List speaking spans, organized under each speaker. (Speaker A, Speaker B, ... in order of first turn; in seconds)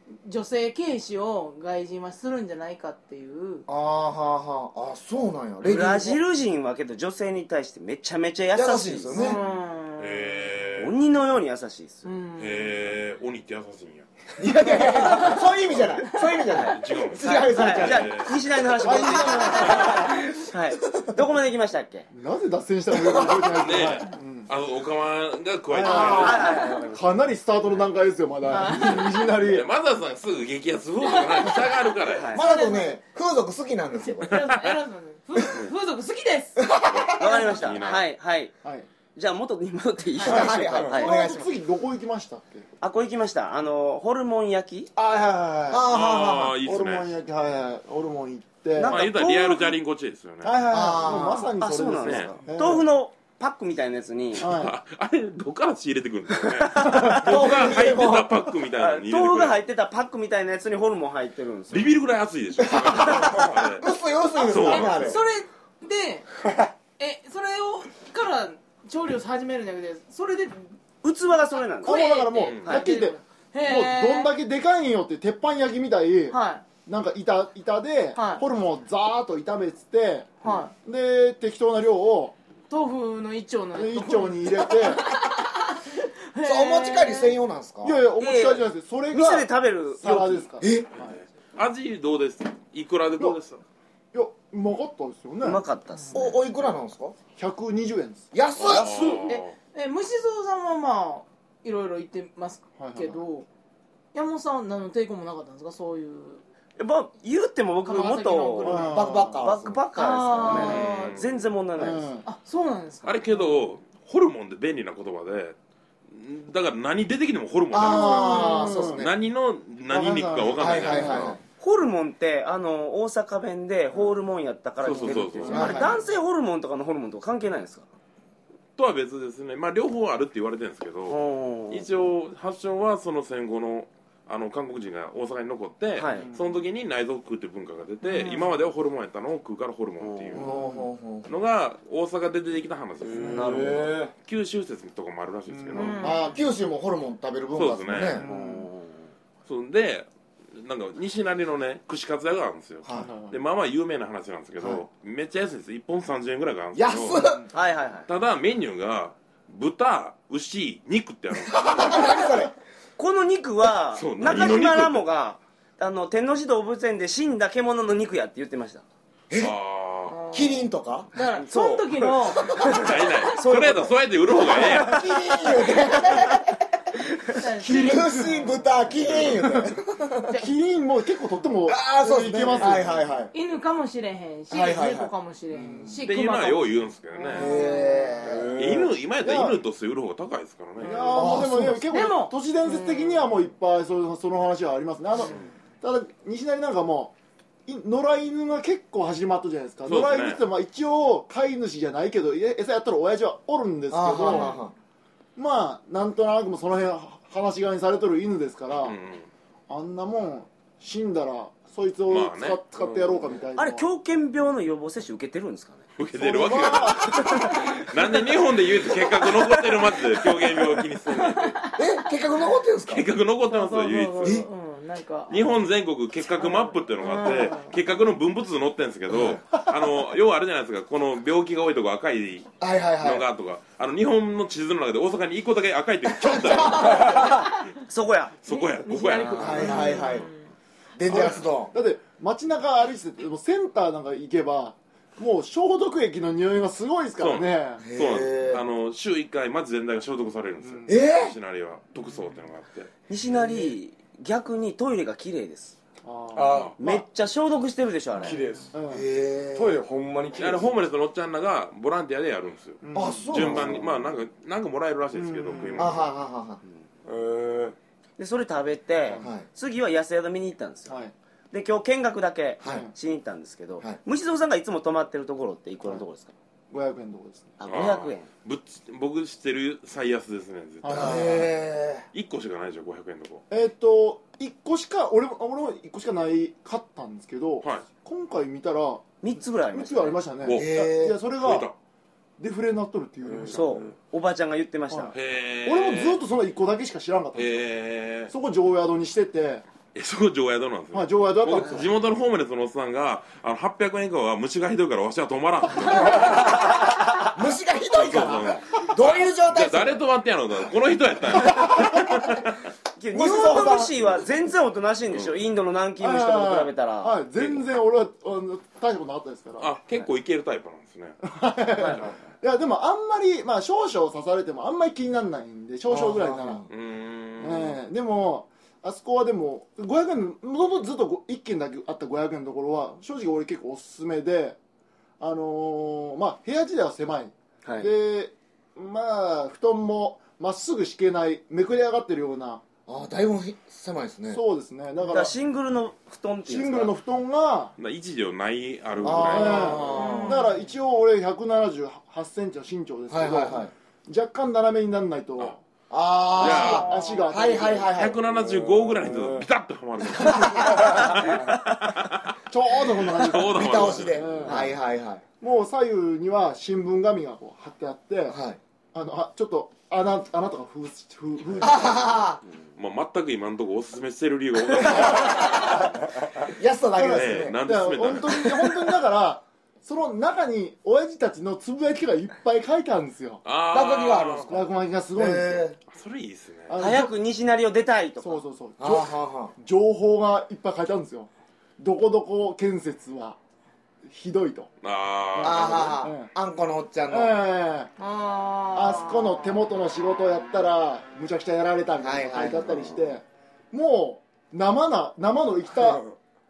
Speaker A: 0.2-3.6, 9.1-10.4, 12.0-12.7, 28.5-29.2, 31.1-33.0, 34.0-37.8, 40.2-40.6, 64.4-66.3, 67.0-70.7, 71.8-74.3, 76.3-76.7, 78.2-78.4, 80.4-80.7, 82.7-87.4, 95.9-96.2, 99.3-103.5, 104.1-106.4, 107.8-109.1, 110.0-111.2, 111.9-113.2, 118.1-118.8, 138.1-138.4, 145.7-146.4, 170.1-173.3, 177.3-178.8, 183.3-188.3, 190.8-193.3, 204.2-204.6, 221.1-221.9, 223.5-225.5, 226.4-227.8, 238.5-240.4, 349.8-350.6, 356.4-357.3, 398.0-399.6
Speaker B: 3.7-6.2, 8.5-9.4, 14.4-18.2, 19.0-19.7, 23.0-23.4, 25.9-26.9, 32.3-34.4, 36.6-37.4, 40.2-41.5, 45.7-46.6, 50.7-51.5, 56.9-58.5, 62.6-65.2, 86.4-88.0, 90.6-90.9, 96.1-97.2, 98.3-99.3, 108.9-109.8, 117.7-119.1, 120.6-121.4, 125.5-125.9, 140.3-141.3, 146.0-148.2, 156.7-157.5, 161.5-162.5, 169.3-169.6, 170.3-171.1, 174.5-176.6, 177.4-180.3, 181.7-183.3, 184.5-185.1, 187.3-188.6, 191.1-191.8, 203.9-204.7, 221.8-223.1, 229.1-229.4, 232.6-233.3, 236.2-237.3, 239.4-240.3, 241.0-241.7, 247.8-248.6, 250.9-251.4, 258.9-259.8, 262.9-263.8, 265.8-266.6, 269.2-269.5, 272.6-272.9, 280.9-282.1, 290.5-291.2, 307.2-310.0, 313.1-313.9, 325.9-326.7, 342.9-344.4, 349.0-350.4, 353.1-353.7, 355.9-358.2, 363.5-365.2, 368.3-368.6, 371.6-372.4, 374.9-375.6, 376.4-377.6, 383.7-385.8, 388.8-389.6, 395.4-397.4, 402.0-402.9
Speaker C: 5.6-9.2, 10.8-12.1, 16.5-22.1, 25.9-26.9, 32.1-32.4, 37.2-38.5, 39.2-41.2, 42.8-44.9, 48.7-49.8, 51.6-54.5, 56.6-57.2, 58.8-61.9, 63.0-63.5, 71.0-72.0, 88.2-90.5, 95.4-96.4, 106.8-112.0, 121.6-127.9, 131.1-131.9, 136.0-136.3, 140.0-140.5, 143.3-144.0, 148.2-149.1, 157.5-158.1, 163.0-168.8, 171.2-174.9, 176.0-176.4, 213.6-215.8, 237.9-238.3, 253.1-255.8, 256.8-258.4, 268.2-271.0, 271.5-276.3, 277.6-278.3, 289.2-290.2, 293.4-295.1, 313.0-317.5, 321.8-322.1, 337.6-337.9, 345.0-346.9, 386.8-388.4
Speaker D: 10.0-11.0, 12.4-14.1, 15.6-16.0, 16.7-18.4, 23.6-26.5, 29.4-32.3, 34.3-34.8, 36.9-38.1, 45.9-47.1, 48.9-50.7, 52.0-52.4, 54.4-59.6, 61.7-63.9, 64.4-65.2, 72.5-72.9, 91.0-93.6, 98.6-99.5, 110.5-111.5, 113.0-115.6, 116.1-121.4, 124.8-125.9, 128.8-140.5, 141.2-143.6, 144.2-146.0, 147.6-148.2, 149.4-157.2, 158.1-162.3, 163.9-165.1, 169.4-170.2, 172.5-175.2, 179.0-179.5, 182.5-182.8, 186.0-187.5, 188.6-191.2, 199.8-200.4, 208.8-209.3, 212.1-212.6, 216.0-221.6, 222.9-224.4, 225.3-237.5, 238.4-240.2, 247.2-252.9, 260.4-266.1, 277.7-281.3, 282.1-283.4, 290.4-290.7, 291.4-291.8, 295.1-296.2, 297.4-298.3, 299.9-306.9, 307.9-312.6, 315.1-315.4, 319.6-321.2, 326.7-327.8, 347.8-349.9, 356.4-356.9, 357.9-364.6, 372.8-375.7, 377.1-378.7, 383.4-384.5, 385.9-386.8, 394.8-396.0
Speaker E: 18.8-20.1, 22.1-24.5, 25.7-29.7, 40.3-42.7, 45.0-45.9, 46.6-49.0, 50.4-52.9, 54.4-54.7, 71.8-82.4, 83.8-85.1, 87.8-91.2, 94.1-95.7, 97.4-98.3, 102.8-103.2, 108.6-109.4, 111.8-112.3, 117.8-119.1, 119.9-121.4, 124.9-126.0, 136.2-136.6, 138.2-138.5, 140.5-140.8, 145.5-146.4, 148.2-148.7, 152.9-153.4, 157.2-157.5, 177.8-178.2, 180.4-183.0, 185.5-186.0, 189.2-189.6, 190.8-197.1, 197.7-204.6, 205.4-209.0, 209.7-213.9, 216.2-217.6, 241.1-247.8, 250.6-251.0, 253.4-253.7, 256.0-256.7, 258.2-259.1, 262.8-263.8, 265.1-266.0, 270.9-271.1, 272.6-272.9, 276.7-277.5, 280.8-281.5, 283.5-289.1, 289.7-291.7, 292.4-293.9, 294.9-297.6, 298.3-299.6, 300.9-301.9, 313.2-313.9, 316.0-319.7, 321.2-326.7, 327.4-334.6, 335.2-342.6, 344.3-345.4, 346.5-347.8, 349.1-355.6, 356.4-357.9, 362.5-364.8, 365.4-368.4, 368.9-372.2, 377.0-383.4, 384.5-385.7, 386.7-387.1, 388.2-393.4, 394.1-394.7, 395.4-396.3, 397.1-397.9, 398.7-406.1
Speaker F: 143.0-144.1, 188.2-189.0, 212.8-213.2, 256.3-257.0, 258.2-258.8, 259.5-260.8, 267.1-267.8, 293.2-293.8, 358.3-359.4